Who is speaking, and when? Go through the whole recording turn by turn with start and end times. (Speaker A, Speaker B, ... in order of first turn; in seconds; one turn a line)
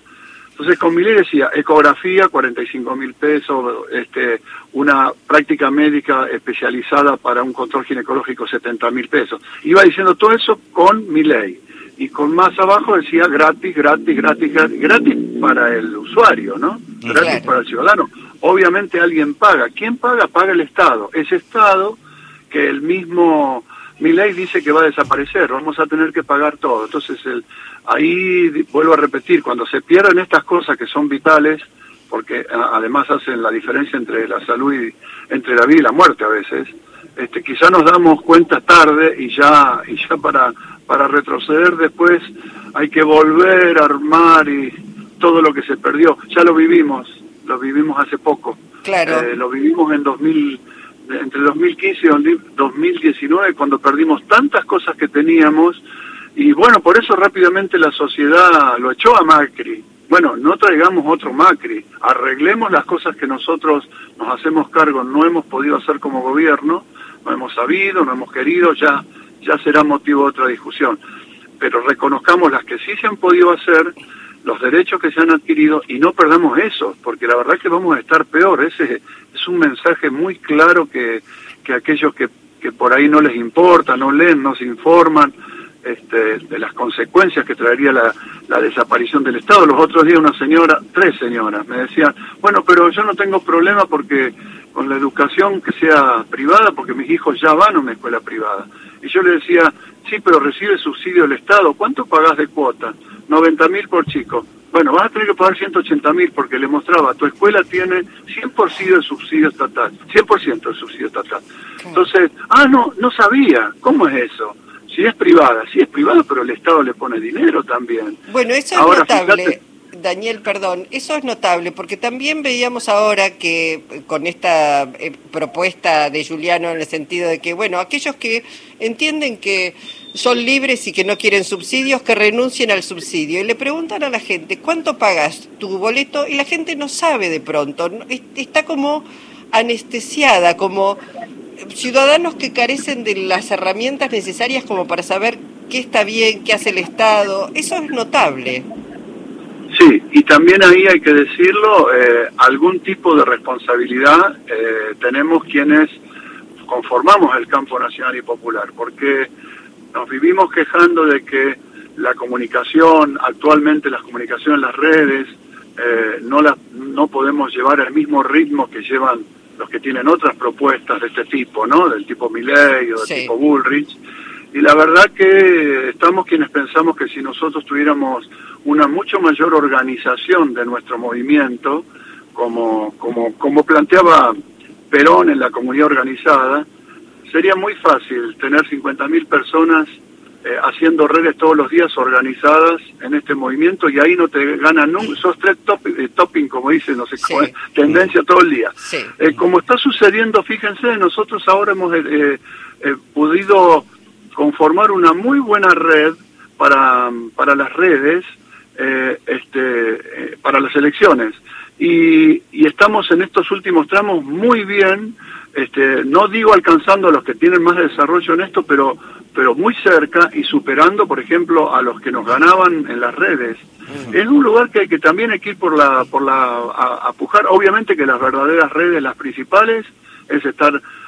Speaker A: 0.6-22.0
Speaker B: 17.2-17.5
Speaker A: 22.5-55.8
Speaker B: 48.8-49.3
Speaker A: 56.4-71.0
Speaker A: 71.6-111.4
Speaker A: 111.9-118.2
Speaker B: 118.3-141.0
Speaker A: 118.8-119.5
Speaker B: 141.6-148.7
Speaker A: 149.7-156.0
Speaker A: 156.7-159.3
Speaker A: 159.9-174.0
Speaker B: 173.0-173.3
Speaker A: 174.5-184.4
Speaker A: 184.9-186.7
Speaker A: 187.3-230.8
Speaker B: 197.2-197.5
Speaker B: 198.8-199.1